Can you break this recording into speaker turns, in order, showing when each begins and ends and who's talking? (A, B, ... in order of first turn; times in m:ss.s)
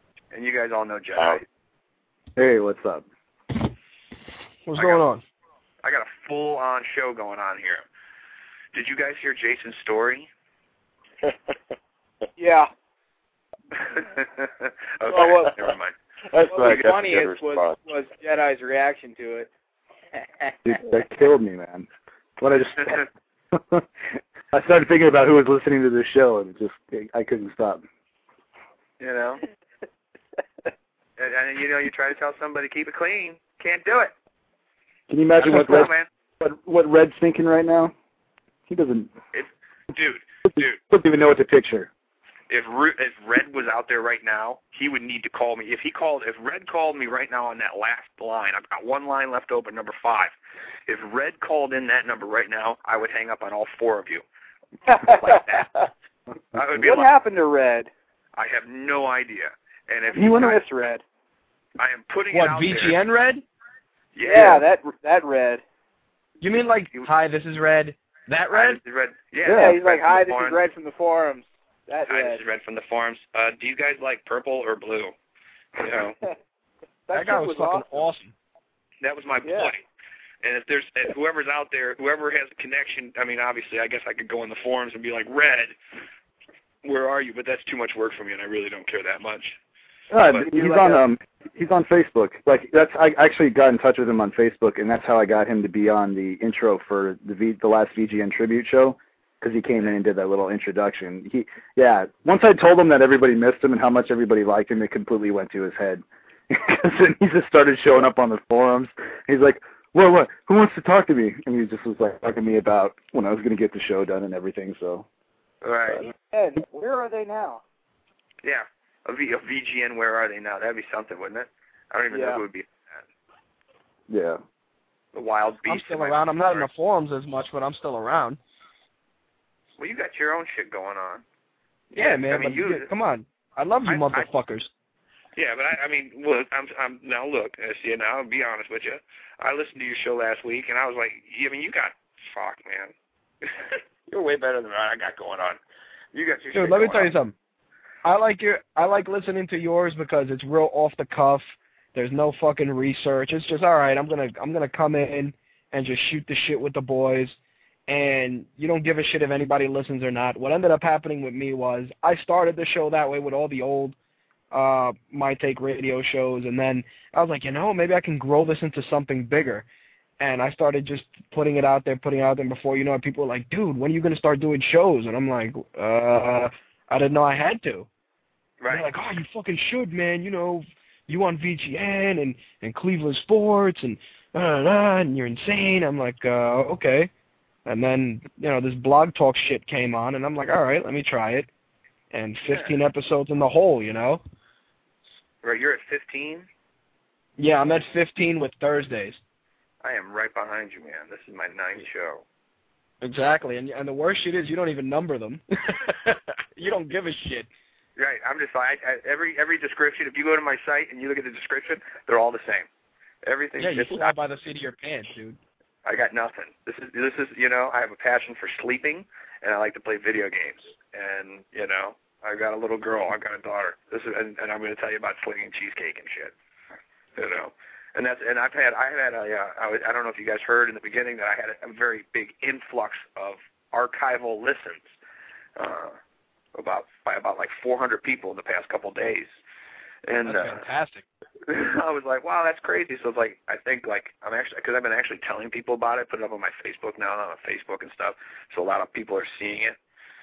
0:00.3-0:01.5 A
0:01.2-0:01.4 B
0:02.4-0:03.0 C
0:04.7-0:05.2 D
0:04.8-0:05.0 A
0:05.8-0:07.8 A
0:08.7-0:10.3 A
0:12.4-0:12.7 E
0:13.8-0:16.0 A
0:15.1-0:15.5 B
0:15.2-0:15.4 E
0:16.3-0:17.8 B
0:16.5-0:19.5 E
0:16.6-0:16.9 A
0:20.6-0:21.9 C
0:22.4-0:23.8 C
0:24.5-0:27.8 C
0:29.0-0:29.4 A
0:31.2-0:34.1 A
0:35.1-0:37.9 C
0:35.4-0:36.1 A
0:38.7-0:39.1 C
0:39.3-0:40.8 A
0:40.9-0:41.9 C
0:42.5-0:50.3 A
0:50.9-0:54.2 A
0:54.9-0:55.9 E
0:55.1-0:55.7 A
0:56.5-0:57.1 A
0:56.7-0:57.9 E
0:58.4-1:00.7 A
1:00.1-1:01.0 E
1:01.8-1:03.0 A
1:02.3-1:03.4 D
1:04.2-1:04.6 A
1:04.2-1:05.6 E
1:06.4-1:08.8 D
1:08.5-1:10.6 A
1:09.4-1:09.8 C
1:09.5-1:12.4 E
1:12.1-1:15.1 A
1:15.8-1:16.2 A
1:15.8-1:16.3 E
1:17.1-1:18.0 E
1:17.1-1:18.3 D
1:19.0-1:19.8 A
1:19.4-1:19.7 E
1:20.4-1:25.8 A
1:26.8-1:29.6 A
1:30.1-1:55.1 C
1:30.3-1:30.9 A
1:30.5-1:30.9 E
1:55.6-1:56.1 A
1:56.1-1:57.6 E
1:58.4-2:03.0 A
2:02.1-2:02.4 E
2:04.1-2:04.4 C
2:05.1-2:06.7 A
2:05.7-2:08.4 D
2:09.8-2:11.2 A
2:11.9-2:12.9 A
2:12.0-2:14.7 D
2:13.8-2:14.3 A
2:15.4-2:22.9 A
2:23.4-2:25.6 A
2:26.1-2:27.1 A
2:26.5-2:27.4 D
2:28.0-2:37.4 D
2:37.9-2:44.0 D
2:44.5-2:49.7 D
2:50.2-2:57.9 D
2:58.6-2:58.9 A
2:58.7-3:07.1 D
3:07.7-3:11.5 D
3:12.1-3:14.2 D
3:12.5-3:12.8 A
3:15.4-3:16.5 A
3:17.4-3:19.2 D
3:19.8-3:22.2 A
3:23.0-3:27.5 D
3:28.0-3:32.7 A
3:33.2-3:34.2 A
3:33.6-3:35.4 D
3:35.8-3:46.3 A
3:47.2-3:54.9 A
3:55.6-3:56.0 A
3:56.6-3:59.4 A
4:00.1-4:00.7 A
4:00.2-4:01.0 D
4:01.5-4:09.8 A